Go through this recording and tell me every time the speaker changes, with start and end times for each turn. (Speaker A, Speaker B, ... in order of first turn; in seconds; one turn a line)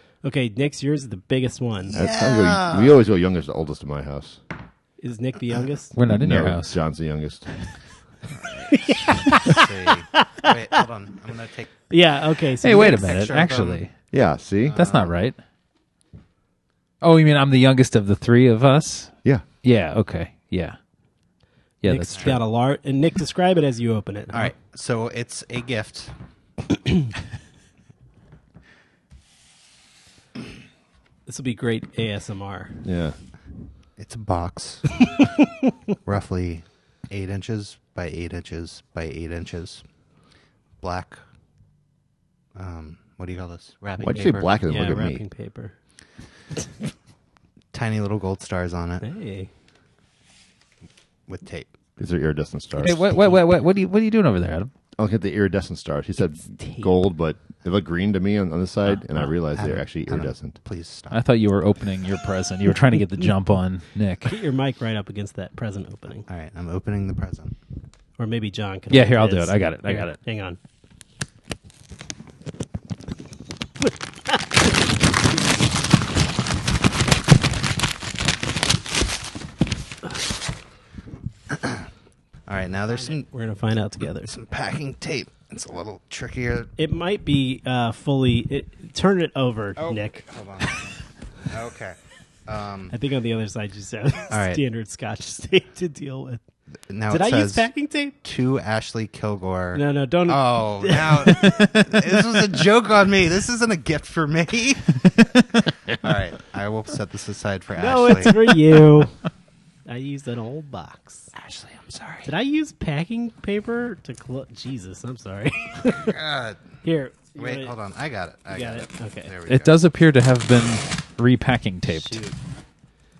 Speaker A: 0.2-2.0
Speaker B: 1.9-3.0
Speaker C: 1.9-4.4
Speaker A: 5.0-6.0
Speaker D: 5.9-6.8
Speaker C: 6.0-7.5
Speaker B: 8.3-11.8
Speaker A: 8.7-10.8
Speaker A: 11.9-13.5
Speaker D: 12.6-13.9
Speaker B: 12.7-13.8
Speaker C: 14.1-14.9
Speaker B: 14.6-15.1
Speaker D: 14.8-15.3
Speaker D: 17.0-20.8
Speaker D: 21.8-22.4
Speaker A: 21.8-24.5
Speaker B: 24.3-26.1
Speaker A: 31.3-32.8
Speaker C: 32.8-33.1
Speaker B: 34.0-35.1
Speaker B: 36.0-39.8
Speaker B: 40.8-41.2
Speaker B: 42.5-44.5
Speaker C: 44.0-45.2
Speaker A: 44.7-45.7
Speaker B: 47.7-49.0
Speaker A: 49.0-49.5
Speaker B: 51.3-51.7
Speaker C: 52.0-53.1
Speaker D: 52.8-54.7
Speaker C: 55.0-60.6
Speaker A: 56.5-57.0
Speaker B: 59.1-61.2
Speaker D: 61.1-64.3
Speaker A: 64.2-66.3
Speaker B: 66.3-67.5
Speaker A: 68.2-70.6
Speaker D: 68.9-70.2
Speaker B: 81.5-81.8
Speaker B: 82.5-83.2
Speaker A: 82.9-84.3
Speaker B: 84.3-86.7
Speaker A: 86.8-90.2
Speaker B: 89.8-90.8
Speaker B: 91.5-92.9
Speaker A: 92.9-96.4
Speaker B: 94.3-94.6
Speaker B: 96.9-97.7
Speaker A: 97.1-98.2
Speaker B: 98.2-105.4
Speaker A: 99.7-101.8
Speaker B: 105.9-108.5
Speaker A: 107.8-109.1
Speaker A: 109.8-111.3
Speaker B: 111.3-112.3
Speaker A: 112.2-116.2
Speaker B: 115.9-116.6
Speaker A: 116.8-117.8
Speaker B: 117.3-119.8
Speaker A: 118.5-119.3
Speaker D: 119.5-122.2
Speaker A: 121.9-122.3